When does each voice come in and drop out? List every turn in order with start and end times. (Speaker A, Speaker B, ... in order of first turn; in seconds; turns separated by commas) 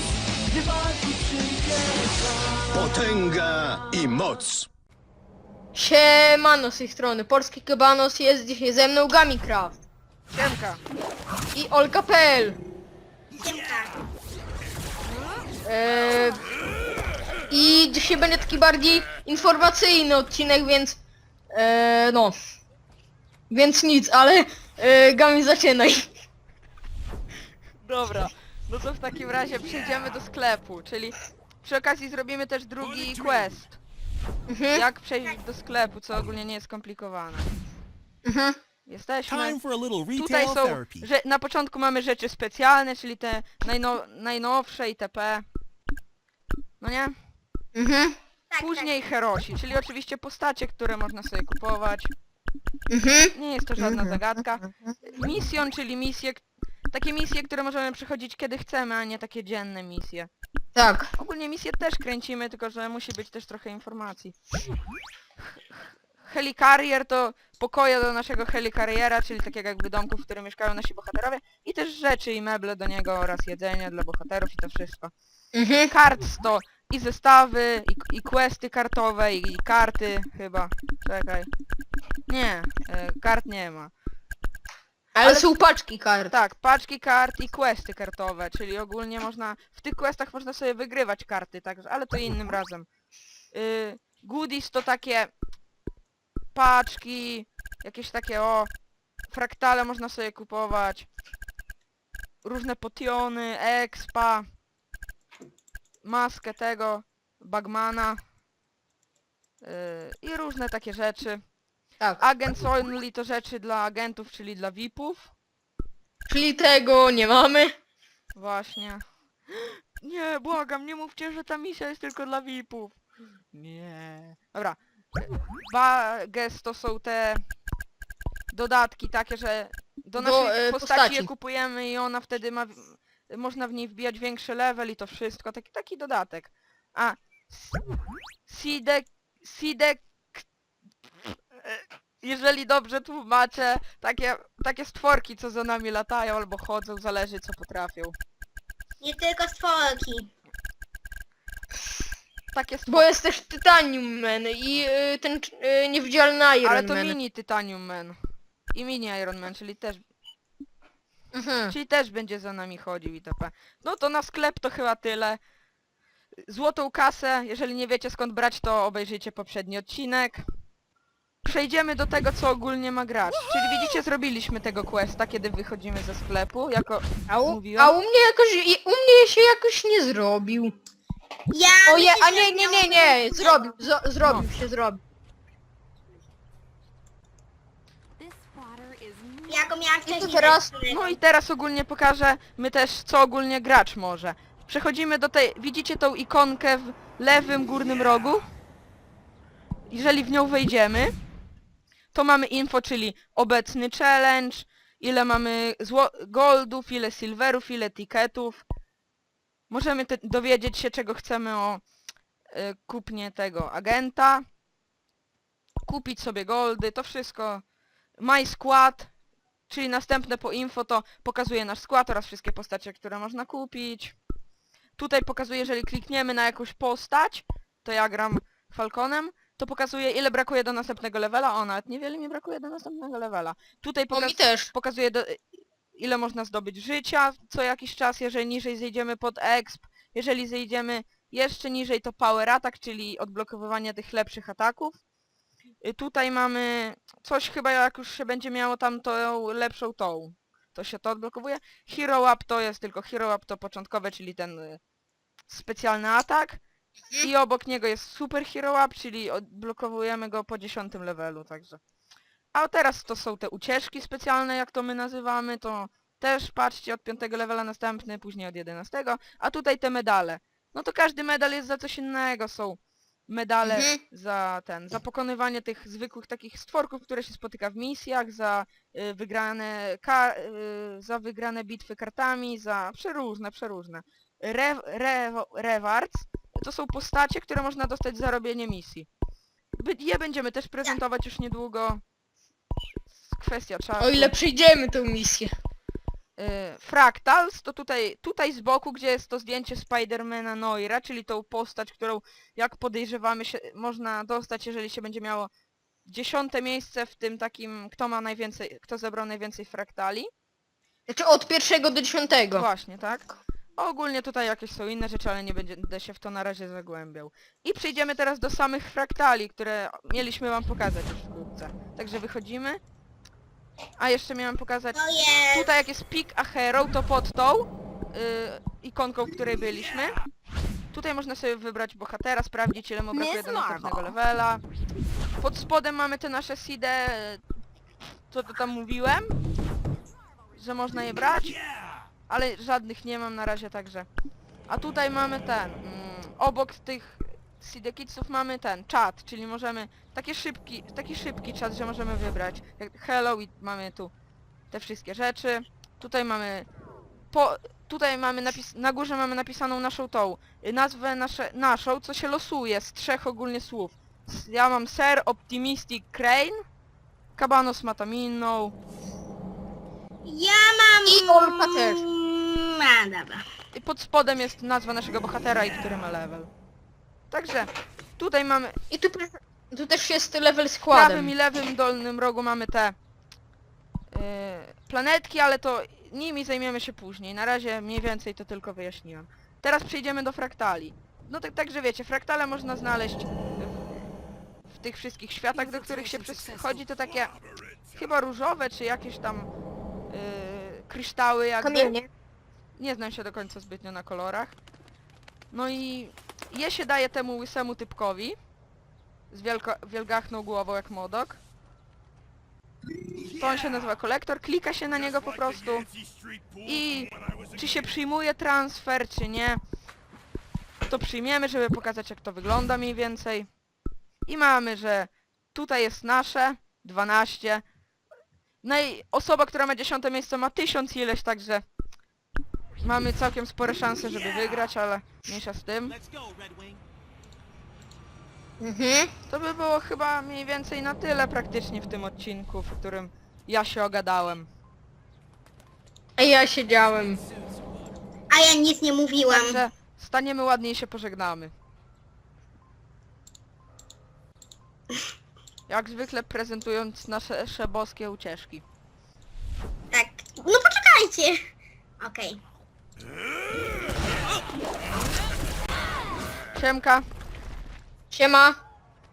Speaker A: 0.7-1.9, Speaker B: 2.7-4.7, Speaker C: 5.7-9.7, Speaker D: 10.3-10.8, Speaker C: 11.5-12.6, Speaker E: 13.4-13.9, Speaker C: 15.6-16.4, Speaker C: 17.5-21.0, Speaker C: 21.5-22.3, Speaker C: 23.5-26.0, Speaker D: 27.8-33.8, Speaker C: 34.5-34.8, Speaker D: 34.7-37.5, Speaker C: 38.2-38.6, Speaker D: 38.9-39.6, Speaker A: 39.2-41.1, Speaker D: 40.1-45.5, Speaker D: 46.8-47.1, Speaker C: 47.8-48.1, Speaker E: 48.5-48.9, Speaker D: 48.6-52.1, Speaker C: 52.9-54.9, Speaker D: 53.3-60.3, Speaker C: 60.7-61.1, Speaker D: 61.2-64.3, Speaker D: 65.6-75.1, Speaker C: 75.5-75.9, Speaker D: 75.9-81.5, Speaker D: 82.3-83.9, Speaker C: 85.1-86.3, Speaker D: 85.2-85.5, Speaker D: 86.3-92.9, Speaker D: 93.5-95.3, Speaker D: 96.5-98.7, Speaker D: 99.3-101.1, Speaker D: 102.4-104.4, Speaker D: 106.0-108.2, Speaker D: 109.6-111.4, Speaker D: 112.2-115.3, Speaker C: 116.3-117.7, Speaker D: 118.3-123.0, Speaker D: 123.5-127.4, Speaker D: 128.5-137.8, Speaker C: 130.2-131.3, Speaker D: 138.5-140.4, Speaker D: 141.6-148.1, Speaker E: 149.0-150.3, Speaker D: 152.5-153.1, Speaker C: 152.9-157.2, Speaker D: 156.6-158.2, Speaker D: 158.7-160.0, Speaker C: 161.3-161.7, Speaker D: 161.7-165.4, Speaker D: 166.4-170.4, Speaker D: 171.4-177.9, Speaker C: 177.3-180.7, Speaker E: 181.5-183.8, Speaker C: 181.9-185.0, Speaker D: 184.2-184.4, Speaker F: 188.2-189.8, Speaker E: 189.5-191.2, Speaker C: 190.1-190.7, Speaker D: 190.9-198.5, Speaker D: 199.9-201.1, Speaker D: 202.1-208.6, Speaker D: 209.7-211.8, Speaker D: 212.5-214.4, Speaker D: 215.8-217.6, Speaker D: 218.2-219.1, Speaker D: 219.7-224.2, Speaker D: 225.0-235.4, Speaker C: 234.1-234.7, Speaker D: 235.9-245.0, Speaker D: 245.8-254.8, Speaker D: 255.5-256.6, Speaker D: 257.2-261.8, Speaker D: 262.5-289.1, Speaker C: 273.6-273.9, Speaker D: 289.8-292.0, Speaker D: 293.3-294.4, Speaker C: 294.0-295.5, Speaker D: 296.4-305.5, Speaker D: 306.1-310.3, Speaker C: 311.1-312.6, Speaker D: 312.5-322.8, Speaker D: 324.0-330.2, Speaker E: 324.9-325.7, Speaker D: 330.9-334.6, Speaker F: 333.1-333.9, Speaker D: 335.4-337.4, Speaker D: 338.3-339.4, Speaker D: 340.5-341.6, Speaker D: 342.3-344.1, Speaker D: 344.7-354.1, Speaker D: 354.7-356.7, Speaker D: 357.3-366.6, Speaker D: 367.4-368.7, Speaker E: 370.2-373.4, Speaker C: 371.1-372.0, Speaker D: 373.7-376.5, Speaker D: 377.3-378.8, Speaker C: 378.9-381.3, Speaker D: 380.9-382.9, Speaker D: 384.1-394.1, Speaker D: 394.7-397.4, Speaker F: 395.5-396.8, Speaker D: 397.9-399.5, Speaker D: 400.1-402.0, Speaker C: 401.6-402.1, Speaker D: 402.8-404.5, Speaker D: 405.5-408.4, Speaker D: 409.3-411.4, Speaker D: 413.3-415.9, Speaker D: 416.6-419.6, Speaker D: 420.9-423.5, Speaker D: 424.3-427.6, Speaker D: 428.6-431.6, Speaker D: 432.8-435.9, Speaker A: 435.9-436.8, Speaker C: 438.6-439.1, Speaker D: 439.3-444.5, Speaker C: 446.2-447.2, Speaker E: 448.3-449.6, Speaker D: 449.3-451.5, Speaker D: 455.7-458.6, Speaker E: 459.9-461.4, Speaker E: 462.0-462.4, Speaker D: 466.5-467.1, Speaker C: 468.1-468.6